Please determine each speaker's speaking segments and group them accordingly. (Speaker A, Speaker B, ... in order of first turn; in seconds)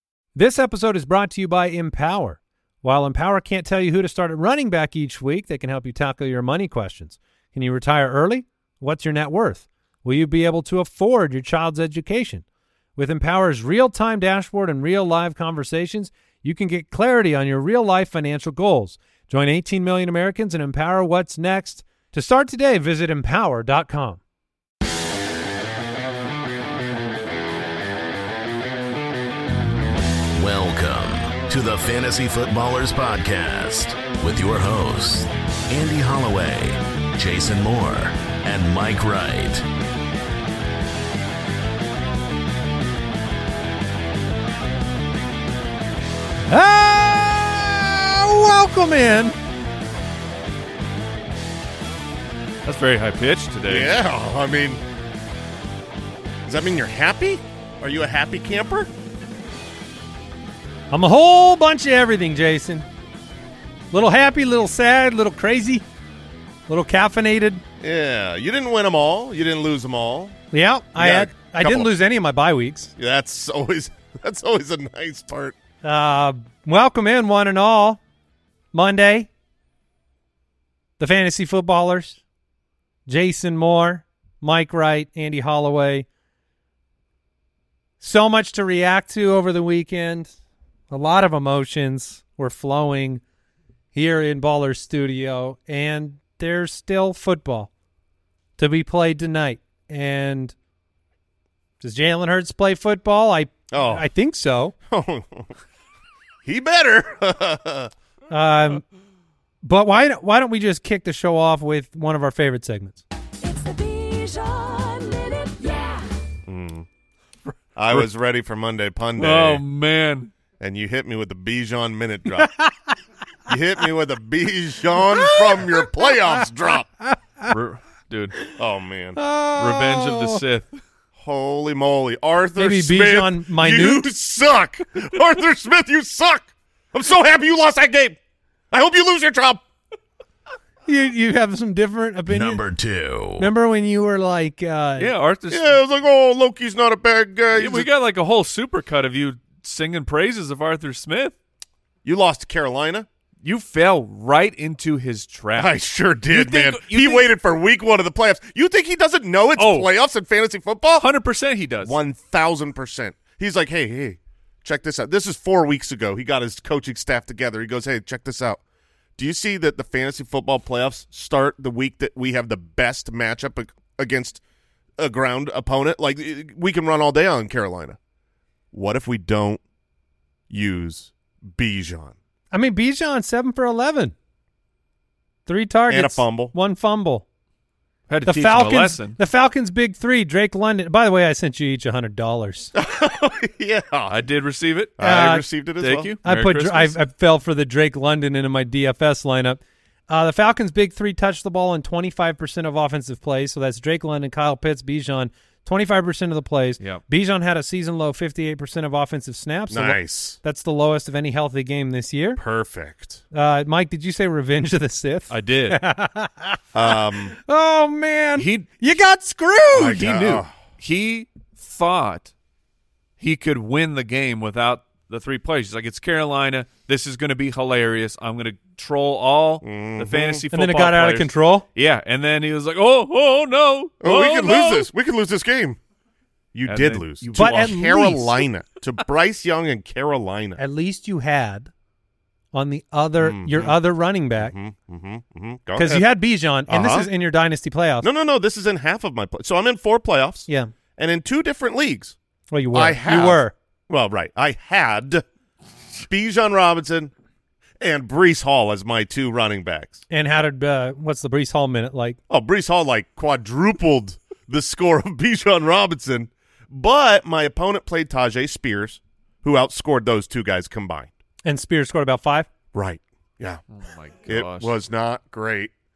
Speaker A: 0.3-12.4, 12.9-24.2, 46.5-49.3, 60.9-62.9, 63.9-65.8, 66.7-67.6, 70.5-72.9, 75.8-78.0, 78.7-79.3, 81.0-82.2, 83.1-86.0, 88.0-90.3, 90.9-93.2, 93.9-97.7, 98.6-100.5, 101.8-104.7, 108.3-108.8, 109.6-113.0, 122.4-122.9, 125.1-126.2, 127.0-127.5, 129.2-130.4, 132.6-134.1, 140.8-142.6, 143.4-145.1, 182.5-184.1, 185.4-187.2, 188.2-192.7, 195.0-195.4, 196.2-212.4, 213.3-220.0, 230.5-231.7, 237.3-238.3, 240.6-241.7, 242.5-244.5, 245.8-248.1, 252.5-253.5, 260.1-262.2, 271.4-272.5
Speaker B: 30.4-39.6, 142.3-143.5
Speaker C: 52.6-53.9, 119.2-120.3, 127.5-128.3, 129.6-130.8, 145.0-145.8, 147.6-151.3, 153.4-155.7, 156.3-157.3, 159.6-159.9, 161.0-161.9, 188.1-189.2, 194.1-195.0, 195.8-196.9, 215.3-215.8, 218.4-218.7, 219.8-222.3, 223.2-234.9, 236.7-237.9, 273.7-274.7
Speaker D: 53.7-54.8, 56.5-58.9, 67.8-70.4, 71.0-71.9, 73.0-75.5, 103.7-104.0, 104.9-105.5, 106.4-107.9, 116.5-116.9, 117.8-119.6, 120.6-122.5, 123.5-126.9, 128.6-129.2, 131.2-138.2, 138.7-139.6, 145.5-147.9, 152.0-153.1, 155.6-161.1, 161.8-168.6, 169.2-174.4, 175.0-178.0, 178.7-179.6, 180.5-182.2, 185.9-186.5, 192.8-194.2, 195.0-196.1, 209.7-210.4, 212.3-213.2, 216.7-217.3, 219.7-220.5, 229.6-230.4, 234.0-235.8, 236.5-240.6, 243.2-243.8, 244.4-246.0, 246.7-247.1, 248.0-252.2, 252.7-255.2, 256.0-257.1, 257.8-260.0, 262.3-271.1, 272.7-273.6, 274.3-275.7
Speaker E: 113.4-116.1